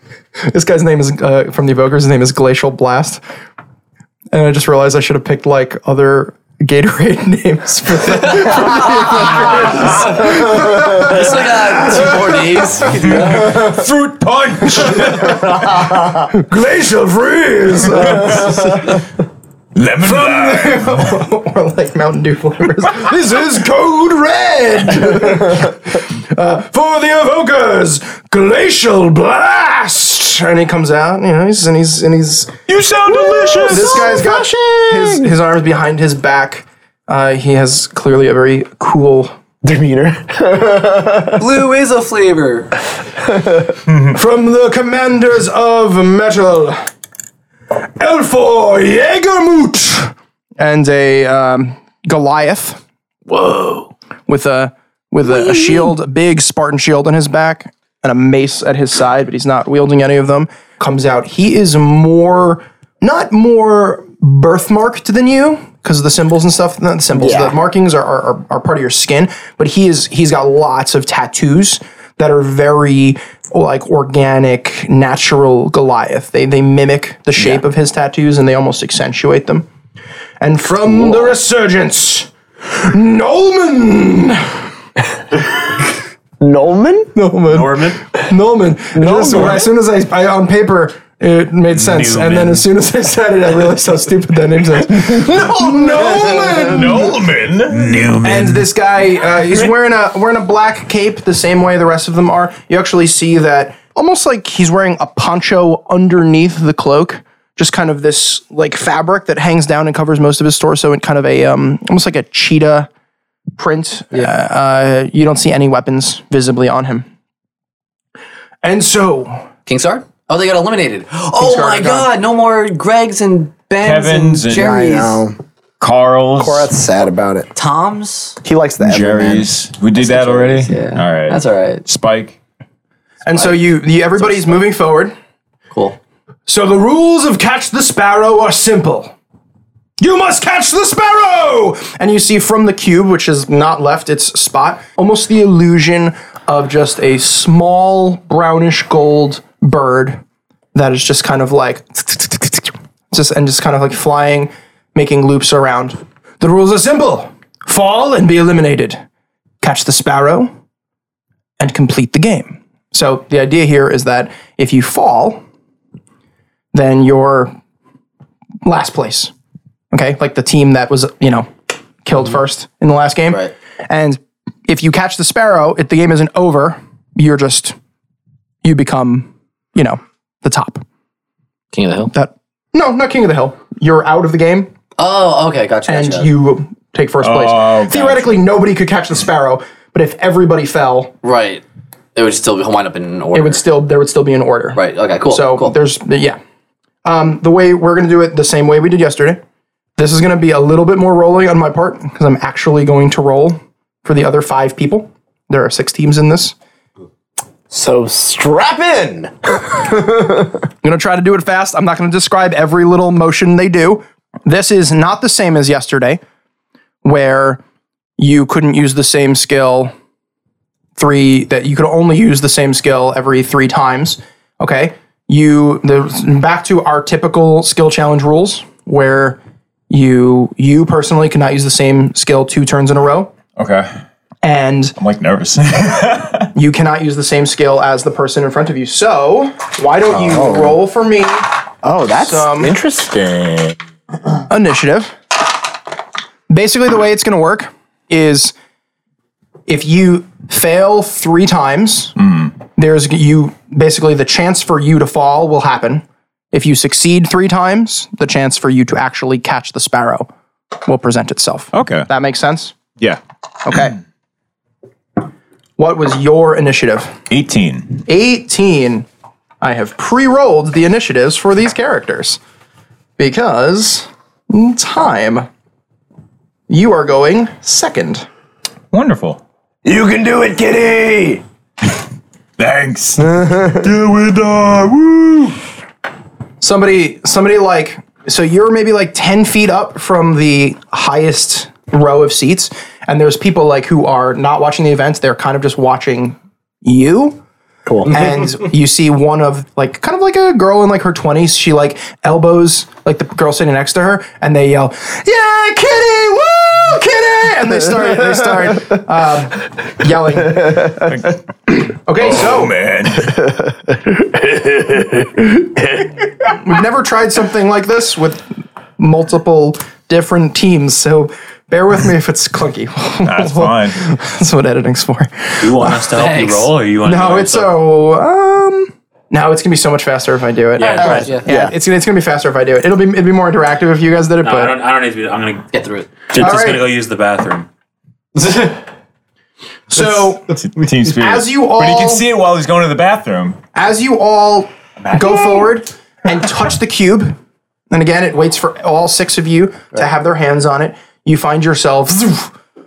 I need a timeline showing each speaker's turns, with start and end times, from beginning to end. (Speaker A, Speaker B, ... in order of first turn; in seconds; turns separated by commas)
Speaker A: 0.4-3.2, Speaker A: 4.3-12.9, Speaker B: 9.0-13.6, Speaker C: 12.8-15.3, Speaker A: 14.7-19.0, Speaker C: 19.7-20.9, Speaker A: 20.0-32.5, Speaker C: 32.7-34.2, Speaker D: 33.1-35.3, Speaker A: 33.6-39.3, Speaker D: 39.6-41.4, Speaker B: 41.4-42.7, Speaker D: 43.3-43.7, Speaker A: 44.1-46.9, Speaker A: 47.7-52.8, Speaker A: 54.3-79.7, Speaker D: 67.1-67.5, Speaker A: 80.4-84.6, Speaker D: 86.4-87.1, Speaker A: 87.1-97.2, Speaker E: 87.5-88.0, Speaker D: 88.9-89.7, Speaker E: 91.8-92.6, Speaker D: 95.0-97.1, Speaker C: 96.6-98.1, Speaker E: 97.7-98.7, Speaker A: 98.2-112.9, Speaker A: 113.6-117.0, Speaker A: 118.6-119.4, Speaker B: 119.7-125.2, Speaker A: 121.4-122.1, Speaker C: 123.8-124.8, Speaker D: 124.5-125.4, Speaker C: 125.8-126.7, Speaker D: 126.4-127.5, Speaker B: 127.5-128.4, Speaker D: 128.4-129.6, Speaker C: 128.8-132.4, Speaker B: 129.9-131.8, Speaker A: 133.2-135.1, Speaker B: 133.3-133.6, Speaker B: 134.2-134.6, Speaker B: 135.7-135.9, Speaker A: 136.5-139.1, Speaker A: 140.0-150.2, Speaker A: 150.7-159.0, Speaker A: 159.6-160.5, Speaker A: 161.6-165.4, Speaker A: 166.7-167.5, Speaker A: 168.6-169.3, Speaker A: 169.9-171.5, Speaker A: 172.0-177.7, Speaker A: 178.6-180.8, Speaker B: 181.7-182.1, Speaker A: 182.1-184.7, Speaker B: 185.0-186.3, Speaker A: 185.9-191.1, Speaker C: 187.2-188.4, Speaker B: 191.2-191.6, Speaker B: 192.1-193.6, Speaker A: 193.3-196.4, Speaker B: 194.7-195.7, Speaker A: 197.0-199.4, Speaker A: 200.0-206.5, Speaker D: 207.7-210.6, Speaker A: 210.8-216.2, Speaker A: 217.0-217.6, Speaker A: 218.2-219.9, Speaker A: 220.9-229.4, Speaker A: 229.9-233.3, Speaker C: 233.6-233.9, Speaker A: 234.4-234.9, Speaker C: 235.0-236.5, Speaker A: 236.5-241.4, Speaker D: 240.1-240.8, Speaker D: 241.8-243.8, Speaker A: 242.1-242.8, Speaker A: 244.5-245.2, Speaker A: 246.5-248.5, Speaker A: 249.7-252.2, Speaker C: 252.2-252.5, Speaker A: 252.8-260.3, Speaker A: 260.8-262.7, Speaker C: 261.7-262.1, Speaker A: 263.6-264.0, Speaker A: 265.8-267.2, Speaker C: 267.3-268.0, Speaker A: 268.1-269.1, Speaker A: 269.6-272.4, Speaker A: 273.2-275.5, Speaker A: 276.7-278.3, Speaker C: 278.9-279.4, Speaker D: 279.8-281.4, Speaker C: 282.6-283.3, Speaker D: 283.2-283.9, Speaker E: 283.8-285.4, Speaker A: 286.6-297.4, Speaker D: 297.9-298.1, Speaker A: 298.1-311.1, Speaker C: 311.0-311.4, Speaker A: 311.8-312.7, Speaker C: 312.2-313.4, Speaker A: 316.5-318.4, Speaker A: 319.0-326.2, Speaker C: 323.2-324.0, Speaker E: 325.6-327.8, Speaker B: 326.1-326.7, Speaker A: 327.0-334.8, Speaker E: 330.8-331.3, Speaker B: 330.8-331.4, Speaker D: 331.4-331.7, Speaker E: 334.4-337.7, Speaker B: 335.7-336.1, Speaker A: 336.4-336.9, Speaker E: 338.4-338.7, Speaker A: 339.9-340.5, Speaker C: 340.5-343.6, Speaker A: 341.1-342.2, Speaker A: 343.7-347.3, Speaker C: 345.0-345.5, Speaker A: 347.9-352.5